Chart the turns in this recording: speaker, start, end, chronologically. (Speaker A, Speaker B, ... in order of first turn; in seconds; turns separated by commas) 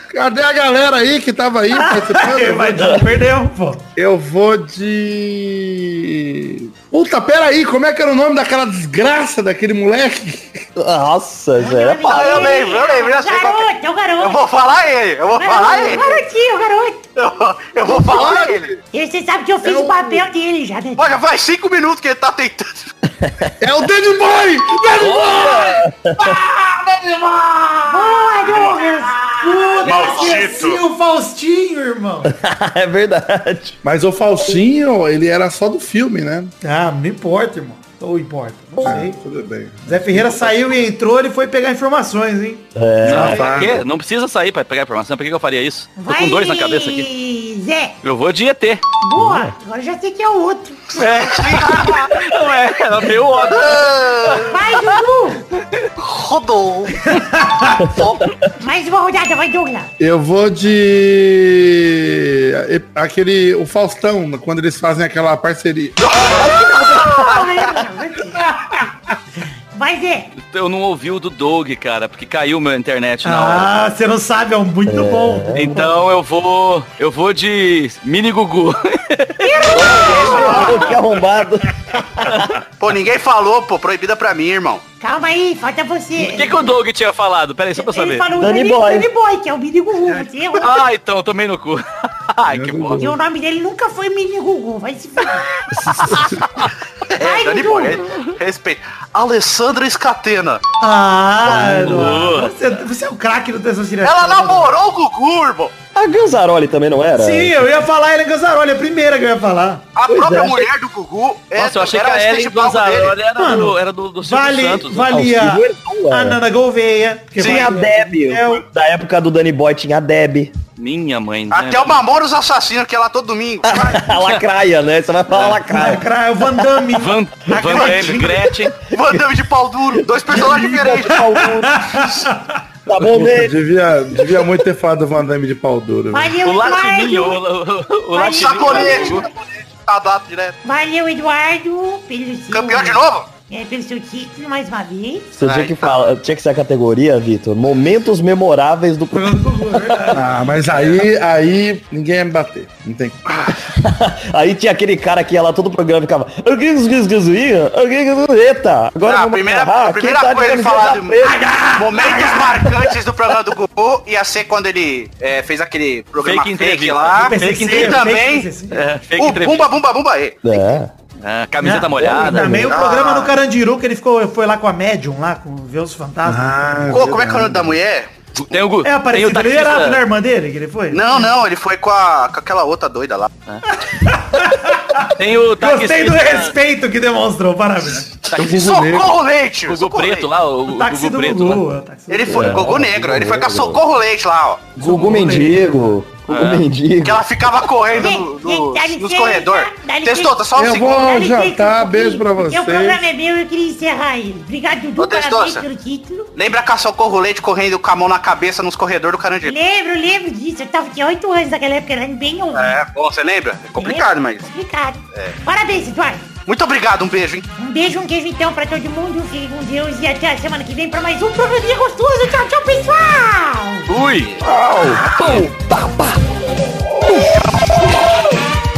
Speaker A: 0.1-2.9, Speaker B: 1.7-3.8, Speaker C: 2.7-3.2, Speaker A: 4.0-10.7, Speaker C: 10.8-12.7, Speaker D: 11.6-14.4, Speaker E: 12.0-16.2, Speaker D: 15.3-17.1, Speaker E: 17.1-18.7, Speaker A: 17.9-18.8, Speaker D: 17.9-21.2, Speaker A: 19.6-20.2, Speaker E: 21.0-22.9, Speaker C: 23.2-23.5, Speaker A: 23.6-25.8, Speaker C: 25.0-26.4, Speaker E: 26.3-29.0, Speaker D: 27.9-30.5, Speaker B: 29.3-32.3, Speaker E: 29.8-30.8, Speaker C: 32.2-33.8, Speaker A: 33.8-36.5, Speaker B: 36.6-39.2, Speaker A: 38.8-40.9, Speaker B: 39.8-43.6, Speaker C: 42.7-43.7, Speaker F: 43.0-47.1, Speaker A: 43.1-43.8, Speaker D: 46.0-48.0, Speaker F: 48.0-48.8, Speaker D: 49.0-51.0, Speaker C: 49.2-49.5, Speaker F: 50.9-55.9, Speaker E: 51.2-52.2, Speaker E: 53.5-54.6, Speaker D: 54.5-55.4, Speaker E: 56.0-57.2, Speaker B: 57.1-57.8, Speaker C: 57.8-58.5, Speaker D: 58.6-59.9, Speaker A: 60.0-66.2, Speaker E: 66.0-67.8, Speaker D: 66.1-68.5, Speaker B: 68.5-68.8, Speaker D: 69.7-70.3, Speaker F: 70.4-73.7, Speaker B: 73.2-76.0, Speaker C: 74.8-75.7, Speaker F: 75.5-80.1, Speaker D: 79.4-81.0, Speaker C: 79.7-82.6, Speaker E: 80.0-81.0, Speaker F: 80.6-81.0, Speaker F: 82.2-82.5, Speaker E: 82.8-84.8, Speaker D: 85.0-86.7, Speaker F: 86.2-88.3, Speaker D: 87.8-90.8, Speaker C: 88.3-89.1, Speaker F: 90.6-93.2, Speaker A: 92.5-93.1, Speaker D: 93.0-95.8, Speaker C: 95.7-96.4, Speaker F: 96.1-96.6, Speaker E: 97.1-100.6, Speaker D: 97.1-98.0, Speaker B: 100.8-104.8, Speaker C: 101.5-102.2, Speaker F: 101.7-102.6, Speaker E: 104.0-105.7, Speaker C: 105.9-107.8, Speaker B: 107.2-109.8, Speaker E: 109.9-113.2, Speaker C: 110.1-110.7, Speaker F: 111.5-115.1, Speaker B: 113.4-118.6, Speaker C: 115.1-116.4, Speaker E: 117.4-117.7, Speaker C: 117.4-120.5, Speaker F: 120.8-122.0, Speaker E: 121.5-124.0, Speaker C: 123.6-126.0, Speaker B: 125.7-128.5, Speaker F: 126.9-128.8, Speaker E: 128.9-131.2, Speaker C: 128.9-129.2, Speaker C: 130.3-132.2, Speaker B: 131.1-132.6, Speaker C: 132.9-133.6, Speaker A: 133.0-136.4, Speaker C: 134.1-134.5, Speaker D: 136.1-137.4, Speaker F: 136.4-139.3, Speaker D: 138.1-139.2, Speaker E: 138.2-140.6, Speaker D: 140.6-145.3, Speaker E: 142.5-143.3, Speaker C: 145.3-150.2, Speaker E: 145.4-146.1, Speaker B: 149.1-150.3, Speaker A: 150.1-153.2, Speaker C: 153.5-161.6, Speaker E: 159.1-168.5, Speaker D: 161.2-162.4, Speaker B: 161.6-162.2, Speaker F: 166.2-168.1, Speaker B: 167.3-168.8, Speaker F: 168.7-169.6, Speaker E: 169.2-170.8, Speaker C: 170.4-170.9, Speaker F: 171.2-172.6, Speaker B: 171.6-176.8, Speaker C: 172.0-172.8, Speaker E: 172.7-173.3, Speaker A: 176.2-177.8, Speaker E: 176.9-178.1, Speaker F: 178.3-180.0, Speaker B: 178.8-181.3, Speaker E: 180.9-183.3, Speaker B: 183.8-188.1, Speaker F: 185.1-186.5, Speaker F: 188.1-188.9, Speaker E: 188.3-190.3, Speaker A: 188.3-189.1, Speaker F: 189.7-191.6, Speaker B: 190.7-192.6, Speaker E: 192.1-194.7, Speaker C: 192.3-193.8, Speaker C: 194.8-197.2, Speaker B: 194.8-195.8, Speaker F: 196.3-196.6, Speaker E: 197.0-201.0, Speaker D: 198.0-206.3, Speaker A: 200.6-203.0, Speaker E: 205.0-205.6, Speaker E: 206.3-209.5, Speaker D: 209.4-212.8, Speaker E: 212.5-214.5, Speaker D: 213.8-216.3, Speaker E: 216.4-217.4, Speaker D: 217.6-223.9, Speaker F: 223.9-224.4, Speaker E: 224.1-225.4, Speaker C: 224.4-226.2, Speaker F: 225.2-225.4, Speaker C: 227.0-227.3, Speaker E: 227.4-227.9